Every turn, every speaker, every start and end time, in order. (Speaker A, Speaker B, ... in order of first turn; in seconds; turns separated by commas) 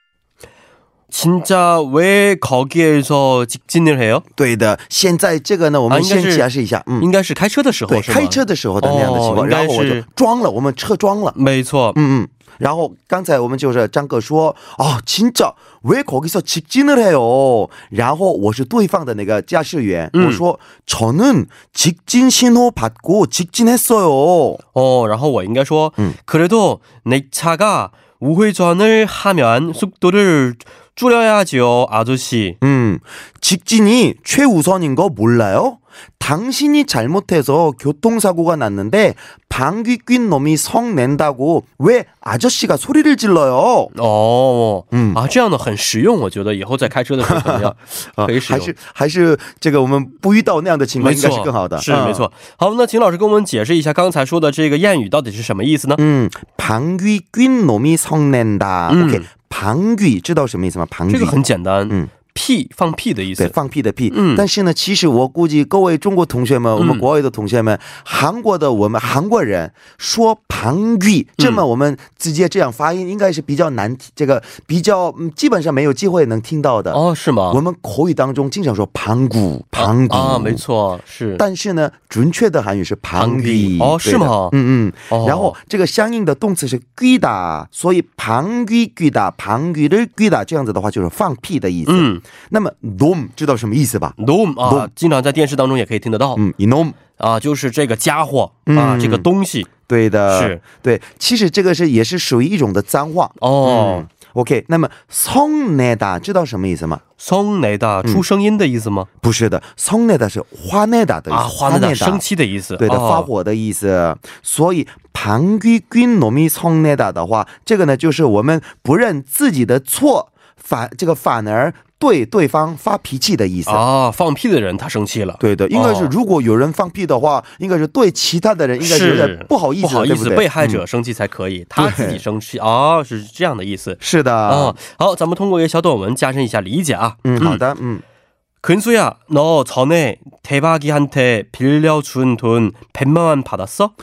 Speaker A: 1.1-4.2, Speaker B: 4.4-7.1, Speaker A: 5.9-6.5, Speaker A: 7.0-10.0, Speaker B: 7.9-11.3, Speaker A: 11.3-12.0, Speaker B: 11.9-24.6, Speaker A: 20.1-20.4, Speaker A: 24.7-32.6, Speaker B: 32.6-43.9, Speaker A: 43.9-48.7, Speaker B: 44.9-45.2, Speaker B: 47.2-52.3, Speaker A: 51.0-56.0, Speaker B: 56.0-61.4, Speaker A: 58.9-59.2, Speaker A: 61.1-63.5, Speaker B: 63.4-80.6, Speaker A: 64.1-64.5, Speaker A: 66.8-67.0, Speaker A: 76.9-77.6, Speaker A: 79.8-81.4, Speaker B: 81.4-94.9, Speaker A: 83.2-84.5, Speaker A: 85.1-85.5, Speaker A: 91.8-92.2, Speaker A: 94.2-96.4, Speaker B: 96.3-97.0, Speaker A: 97.2-99.7, Speaker B: 98.7-99.3, Speaker B: 99.9-107.0, Speaker A: 100.3-100.6, Speaker A: 103.4-104.1, Speaker A: 107.2-109.1, Speaker B: 109.2-112.2, Speaker A: 111.3-113.3, Speaker B: 112.8-123.8, Speaker A: 123.7-126.1, Speaker B: 125.4-130.8, Speaker A: 128.8-137.6, Speaker B: 131.8-132.2, Speaker B: 134.0-134.8, Speaker B: 137.2-138.0, Speaker A: 138.6-143.9